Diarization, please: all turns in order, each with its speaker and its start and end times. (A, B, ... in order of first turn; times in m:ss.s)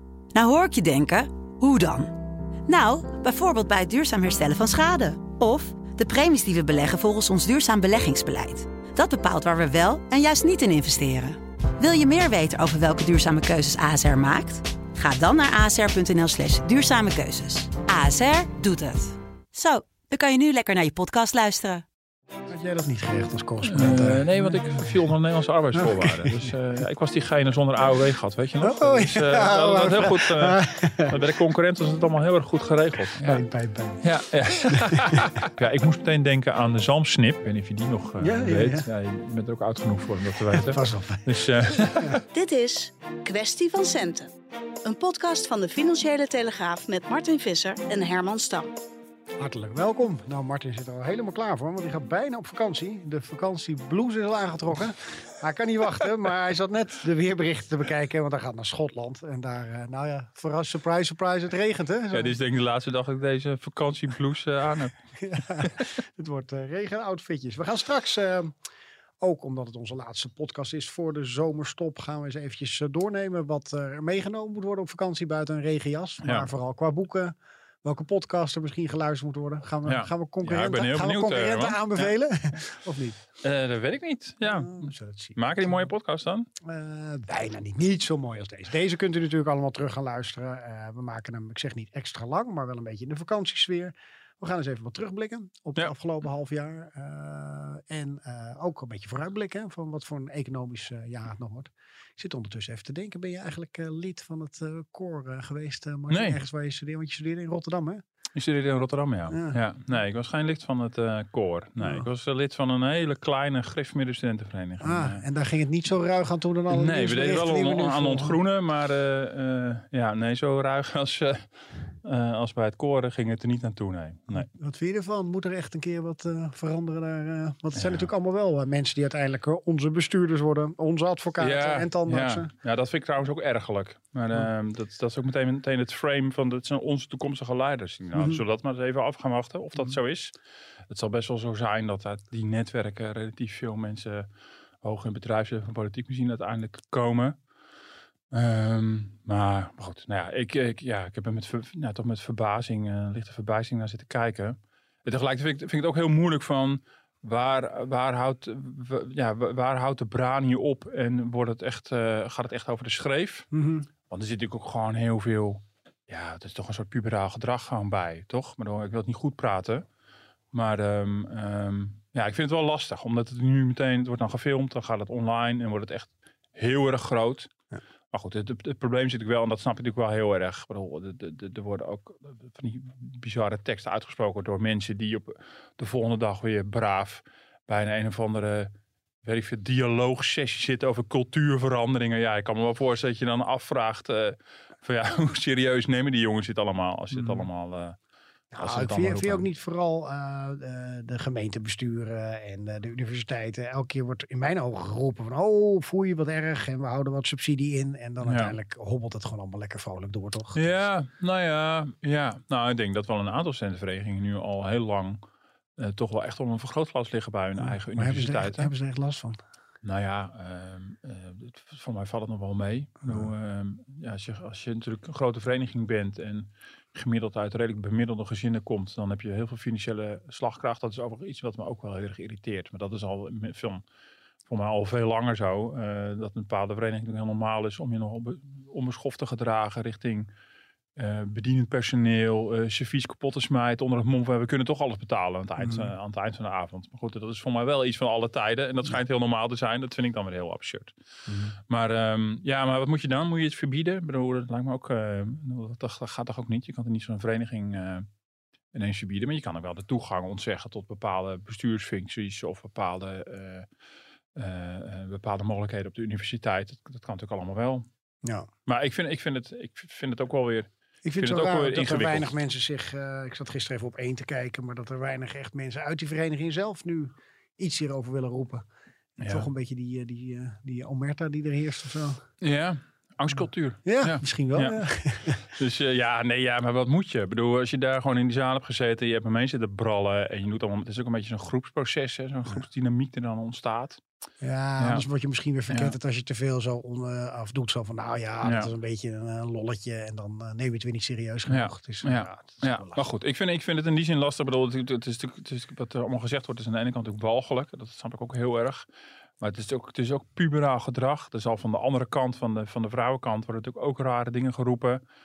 0:00.3-0:02.1 A
0:02.7-0:21.8 A
0:22.5-0:24.4 B
0:23.6-0:33.4 C
0:25.9-0:26.3 B
0:28.6-0:31.2 B
0:33.2-0:34.0 B
0:34.0-0:42.2 C
0:34.8-0:35.2 B
0:38.2-0:38.9 B
0:40.5-0:42.2 B
0:42.3-0:44.3 D
0:44.8-0:48.7 D
0:49.4-1:02.3 B
1:02.1-1:04.9 C
1:05.2-1:08.5 B
1:05.6-1:05.9 C
1:09.2-1:23.2 B
1:19.8-1:22.1 C
1:23.4-1:26.5 C
1:24.4-1:25.4 B
1:26.6-1:48.0 B
1:46.1-1:46.4 C
1:48.3-1:55.2 C
1:49.3-1:49.6 B
1:51.8-1:52.0 B
1:54.8-1:58.4 B
1:56.7-2:01.5 C
2:02.0-2:04.5 C
2:04.4-2:12.5 B
2:07.8-2:08.0 C
2:11.4-2:20.3 C
2:20.9-2:24.3 C
2:24.8-2:27.4 C
2:28.3-2:43.5 C
2:43.5-2:43.9 B
2:44.0-2:49.8 C
2:50.5-2:57.5 C
2:58.1-3:08.7 C
3:09.2-3:18.0 C
3:18.5-3:30.8 B
3:18.5-3:19.4 C
3:28.2-3:28.5 C
3:30.5-3:35.2 C
3:35.8-3:38.7 C
3:37.6-3:39.4 B
3:39.8-3:53.8 C
3:54.5-4:00.3 C
4:01.0-4:10.9 C
4:11.3-4:11.6 B
4:11.6-4:18.1 C
4:18.7-4:23.7 C
4:24.3-4:27.9 C
4:28.6-4:32.3 C
4:31.0-4:38.6 B
4:39.2-4:39.4 C
4:39.2-4:42.2 B
4:42.4-4:54.0 C
4:43.8-4:45.4 B
4:54.4-5:03.0 B
4:54.8-4:55.0 C
4:55.7-4:55.9 C
4:58.4-4:58.7 C
5:01.5-5:08.8 C
5:09.4-5:15.0 C